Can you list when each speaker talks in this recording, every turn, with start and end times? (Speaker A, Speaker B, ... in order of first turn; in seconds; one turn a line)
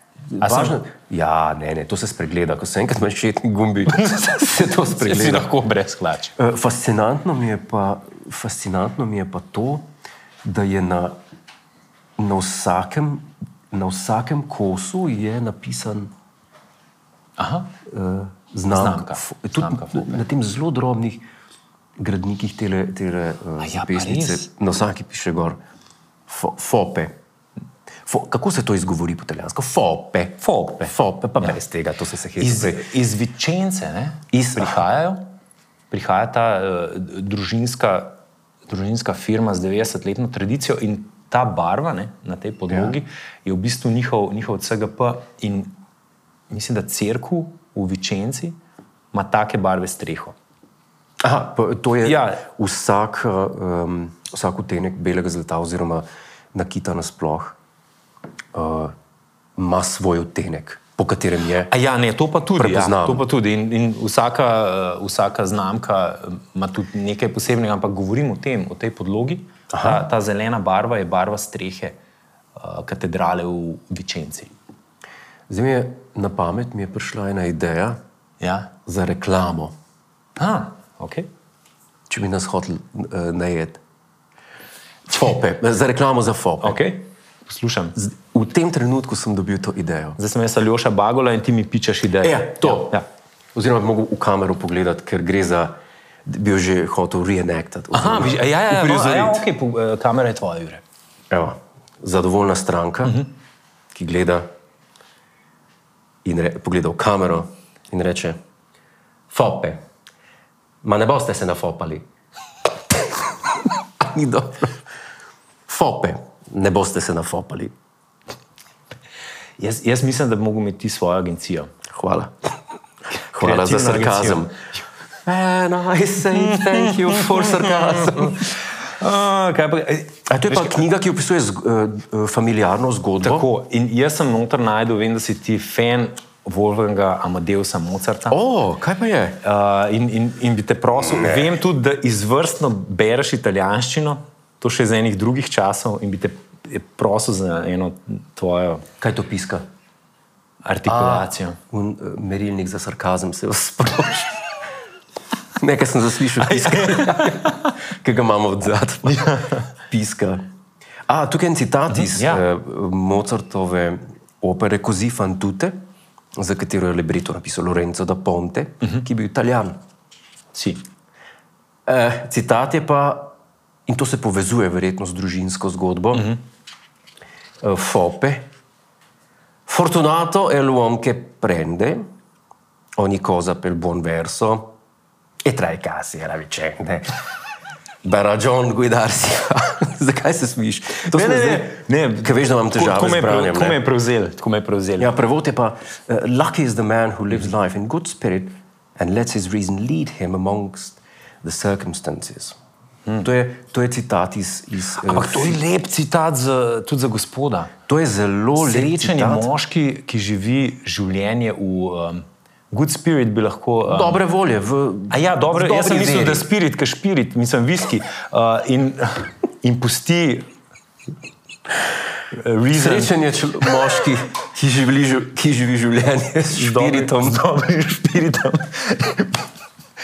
Speaker A: 0.3-5.5
Speaker B: 0.4-0.8
Speaker B: 3.9-6.4
Speaker A: 6.4-9.8
Speaker A: 10.4-11.2
Speaker A: 12.2-16.1
Speaker B: 17.4-17.7
Speaker A: 17.9-21.2
Speaker B: 18.7-20.2
Speaker A: 22.0-25.6
Speaker B: 23.6-24.4
Speaker A: 26.3-27.1
Speaker A: 28.1-32.9
Speaker B: 30.4-31.6
Speaker B: 32.4-35.3
Speaker A: 34.3-34.9
Speaker B: 35.9-38.2
Speaker B: 38.7-45.7
Speaker A: 42.7-43.0
Speaker B: 46.5-48.6
Speaker B: 49.1-50.4
Speaker A: 51.2-57.6
Speaker B: 52.0-52.4
Speaker A: 58.5-58.9
Speaker A: 59.6-61.7
Speaker B: 61.7-72.0
Speaker A: 62.6-63.3
Speaker A: 69.7-70.0
Speaker B: 72.6-74.5
Speaker A: 75.5-78.0
Speaker B: 78.4-78.7
Speaker A: 78.9-79.7
Speaker B: 80.4-81.3
Speaker A: 82.1-83.8
Speaker A: 85.1-86.8
Speaker B: 86.6-88.0
Speaker A: 88.0-90.2
Speaker B: 90.2-93.0
Speaker A: 92.2-93.0
Speaker A: 93.5-95.7
Speaker A: 96.2-99.5
Speaker B: 97.9-100.8
Speaker A: 101.3-103.2
Speaker A: 103.9-104.5
Speaker A: 106.2-108.4
Speaker A: 109.3-109.8
Speaker A: 110.8-112.0
Speaker A: 114.0-114.8
Speaker A: 115.7-117.7
Speaker B: 119.6-121.7
Speaker A: 121.9-122.3
Speaker B: 123.3-124.5
Speaker A: 123.3-124.6
Speaker A: 125.2-128.5
Speaker B: 126.4-130.8
Speaker A: 130.3-133.5
Speaker B: 133.2-138.4
Speaker A: 138.3-139.4
Speaker B: 139.4-148.9
Speaker A: 141.1-141.6
Speaker A: 149.0-149.6
Speaker B: 150.6-151.6
Speaker A: 150.9-154.4
Speaker A: 155.6-160.4
Speaker B: 156.4-157.7
Speaker B: 159.0-159.7
Speaker A: 161.1-165.8
Speaker B: 161.9-162.4
Speaker A: 166.4-169.8
Speaker B: 170.5-170.8
Speaker A: 171.9-173.3
Speaker A: 173.9-176.3
Speaker B: 176.1-176.4
Speaker A: 177.6-178.5
Speaker A: 179.7-182.0
Speaker A: 183.0-184.7
Speaker A: 185.4-187.1
Speaker A: 188.0-193.8
Speaker B: 191.1-195.1
Speaker A: 195.0-202.6
Speaker A: 203.2-205.6
Speaker B: 205.0-207.7
Speaker A: 207.9-209.5
Speaker B: 208.6-214.2
Speaker A: 213.9-216.5
Speaker B: 215.1-220.5
Speaker B: 222.3-223.1
Speaker A: 222.8-227.4
Speaker B: 226.5-229.4